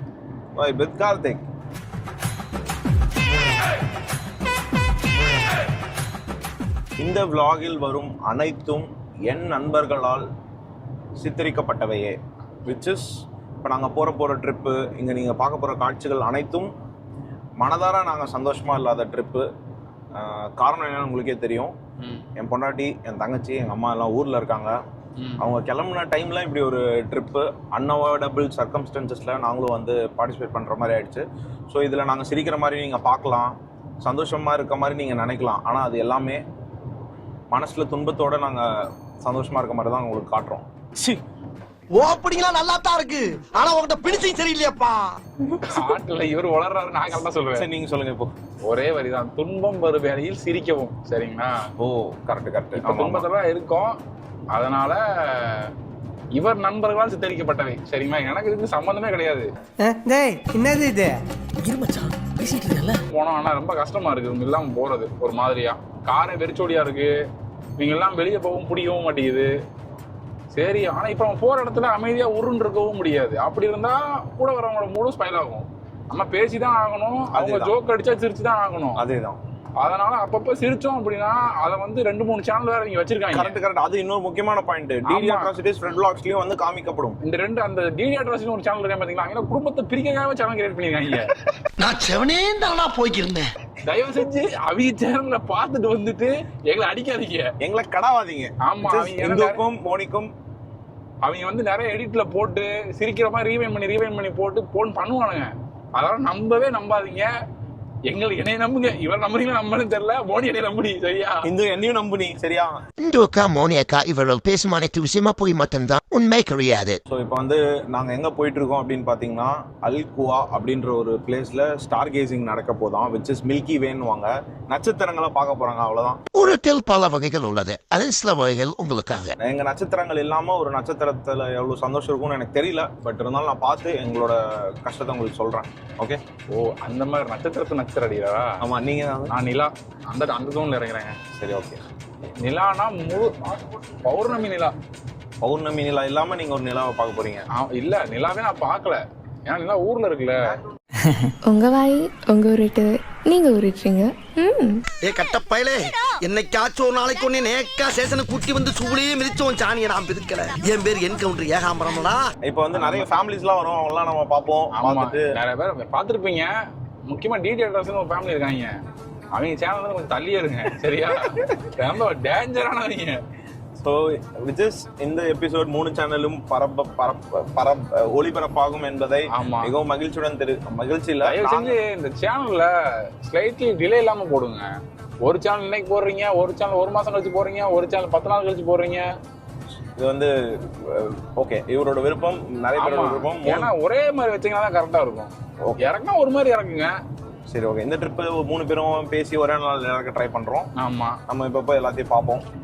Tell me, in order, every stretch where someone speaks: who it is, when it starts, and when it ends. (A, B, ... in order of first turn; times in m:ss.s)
0:00.6-0:01.4 A
0:07.0-0:10.2 A
0:11.2-0:12.2 A
0:12.7-0:13.1 A
0:13.6-0:16.7 A
0:17.6-0:19.5 A
0:20.2-0:21.7 A
0:22.4-0:24.8 A
0:25.4-0:36.4 A
0:37.5-0:38.7 A
0:39.2-0:40.6 A
0:41.9-0:45.2 B
0:45.7-0:47.6 C
0:47.6-0:48.3 A
0:48.6-0:51.5 C
0:51.8-0:53.3 A
0:52.8-0:54.0 C
0:54.5-0:55.7 C
0:56.4-0:59.5 C
0:59.8-1:01.2 D
1:01.7-1:02.9 D
1:03.1-1:07.1 C
1:07.8-1:09.5 C
1:10.6-1:19.0 C
1:17.3-1:17.7 A
1:19.0-1:19.4 A
1:19.8-1:23.6 C
1:23.3-1:27.2 A
1:25.1-1:25.5 C
1:27.2-1:31.3 C
1:31.8-1:33.5 B
1:33.9-1:37.5 C
1:37.6-1:40.3 A
1:38.6-1:39.6 C
1:41.2-1:47.3 C
1:48.1-1:51.4 C
1:51.4-1:52.8 A
1:53.0-1:57.0 E
1:57.1-2:06.2 A
2:06.3-2:09.3 E
2:09.4-2:16.2 A
2:16.5-2:18.5 C
2:18.6-2:19.3 A
2:19.3-2:21.2 C
2:21.4-2:21.8 A
2:22.4-2:24.8 C
2:25.4-2:27.4 A
2:27.6-2:30.3 C
2:31.5-2:34.7 F
2:35.0-2:42.3 B
2:42.4-2:45.3 A
2:42.7-2:43.1 C
2:44.8-2:46.5 C
2:47.1-2:48.7 C
2:49.4-2:53.2 C
2:53.8-3:01.8 A
2:59.3-2:59.7 C
3:01.2-3:02.7 C
3:03.2-3:04.7 C
3:05.2-3:09.1 C
3:10.0-3:13.7 A
3:12.8-3:16.9 C
3:17.5-3:20.7 A
3:20.8-3:21.2 C
3:21.3-3:22.4 A